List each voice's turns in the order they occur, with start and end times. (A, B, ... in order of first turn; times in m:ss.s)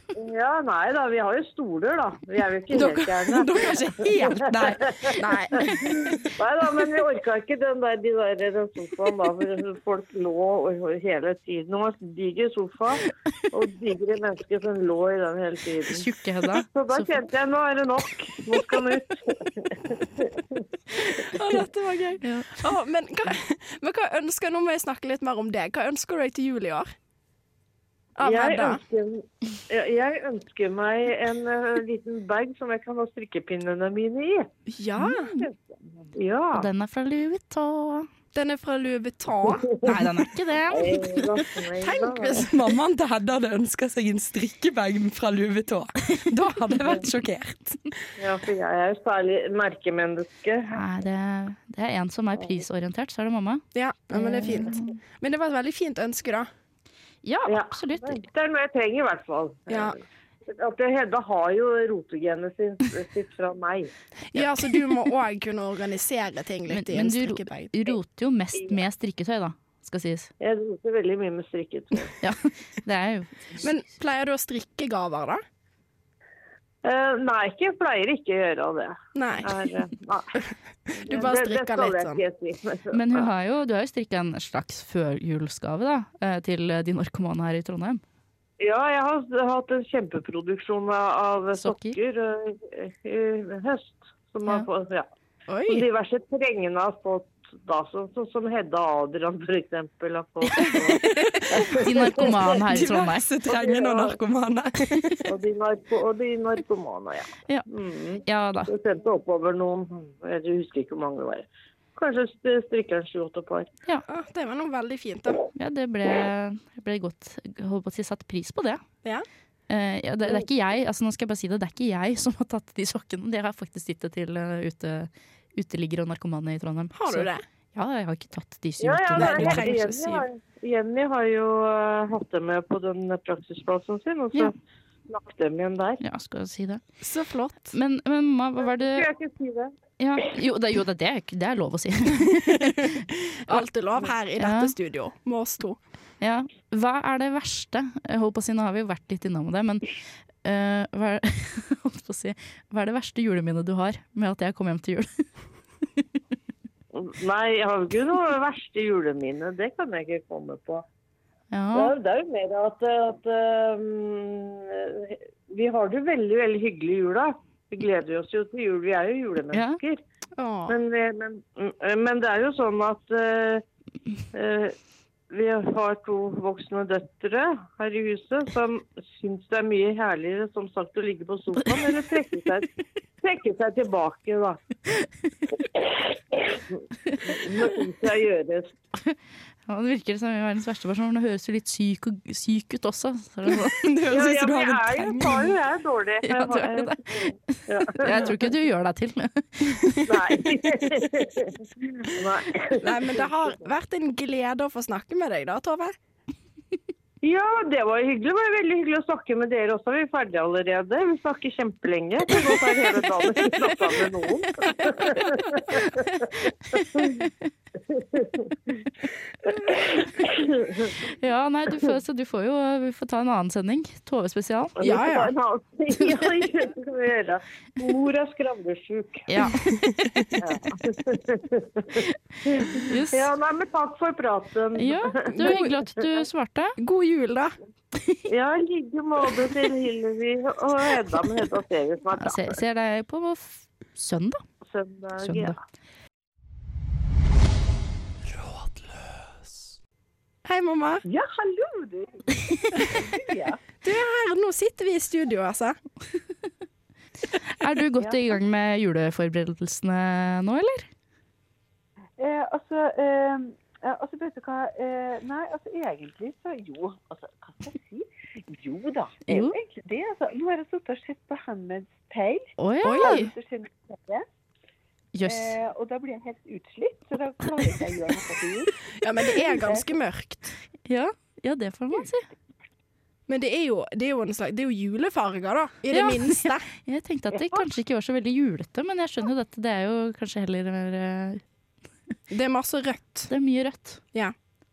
0:00.1-0:16.1 A
0:02.7-0:04.4 B
0:02.9-0:04.8 C
0:05.2-0:06.0 B
0:15.9-0:17.2 D
0:16.6-0:20.6 A
0:21.2-0:26.9 B
0:22.2-0:22.7 D
0:28.2-0:28.8 B
0:28.2-0:34.5 A
0:34.7-0:35.3 B
0:35.0-0:35.4 D
0:35.3-0:36.7 A
0:36.5-0:38.1 D
0:38.3-0:39.8 B
0:39.5-0:39.8 A
0:39.8-0:41.2 D
0:40.7-0:42.4 A
0:41.8-0:42.7 B
0:42.3-0:47.8 C
0:48.2-0:50.8 A
0:50.7-0:55.0 D
0:53.7-0:56.5 B
0:57.2-0:58.2 D
0:57.5-1:03.9 A
0:59.7-1:00.0 B
1:04.3-1:07.7 B
1:06.7-1:10.3 D
1:08.6-1:08.8 A
1:10.4-1:12.2 A
1:12.2-1:13.7 D
1:13.6-1:15.4 B
1:16.8-1:20.4 A
1:19.1-1:19.5 B
1:20.9-1:22.2 B
1:21.0-1:23.3 A
1:22.9-1:28.0 D
1:28.6-1:35.1 A
1:31.6-1:32.0 D
1:35.5-1:35.8 B
1:35.7-1:42.6 A
1:40.4-1:41.2 D
1:41.3-1:41.7 C
1:41.7-1:43.3 D
1:42.6-1:45.3 C
1:43.5-1:44.2 A
1:45.2-1:53.7 A
1:48.2-1:48.7 D
1:54.0-1:55.4 B
1:55.5-1:58.8 D
1:59.7-2:09.7 D
2:06.9-2:07.4 B
2:08.8-2:14.5 A
2:09.2-2:10.2 B
2:15.1-2:16.0 A
2:16.0-2:16.8 D
2:17.0-2:17.7 B
2:17.7-2:19.1 D
2:18.6-2:19.7 A
2:20.0-2:23.6 D
2:22.3-2:25.8 B
2:24.4-2:24.7 D
2:26.2-2:35.2 D
2:36.9-2:40.8 A
2:41.5-2:41.9 D
2:41.7-2:50.0 A
2:49.5-2:49.8 D
2:50.4-2:50.8 B
2:50.7-2:53.6 A
2:54.3-2:54.8 A
2:55.3-3:02.7 A
3:03.2-3:04.6 A
3:05.7-3:06.6 A
3:07.2-3:08.7 A
3:09.0-3:13.9 D
3:13.8-3:15.4 C
3:14.1-3:18.4 A
3:16.2-3:20.0 D
3:19.8-3:20.1 B
3:20.0-3:23.6 A
3:22.8-3:25.9 B
3:27.2-3:37.2 A
3:34.8-3:37.3 D
3:37.9-3:38.4 A
3:39.4-3:41.0 A
3:41.1-3:44.8 D
3:44.8-3:49.3 A
3:44.8-3:45.3 B
3:49.3-3:49.8 D
3:49.6-3:50.4 B
3:50.4-3:56.1 A
3:52.0-3:53.3 D
3:54.8-3:56.8 D
3:55.3-3:55.7 B
3:56.8-3:57.6 B
3:58.0-3:58.2 D
3:58.3-4:02.6 A
4:02.2-4:04.4 D
4:04.6-4:05.5 A
4:05.2-4:05.6 D
4:08.4-4:08.8 C
4:10.4-4:11.0 B
4:11.0-4:13.6 E
4:13.8-4:15.8 B
4:17.5-4:20.9 D
4:22.2-4:34.3 E
4:29.2-4:29.6 D
4:32.6-4:33.3 D
4:32.8-4:33.3 B
4:35.1-4:35.5 D
4:35.2-4:39.9 E
4:39.0-4:40.5 B
4:40.8-4:42.3 D
4:43.3-4:46.6 B
4:45.9-4:51.4 D
4:47.3-4:47.7 E
4:52.3-4:53.3 B
4:53.3-4:54.0 D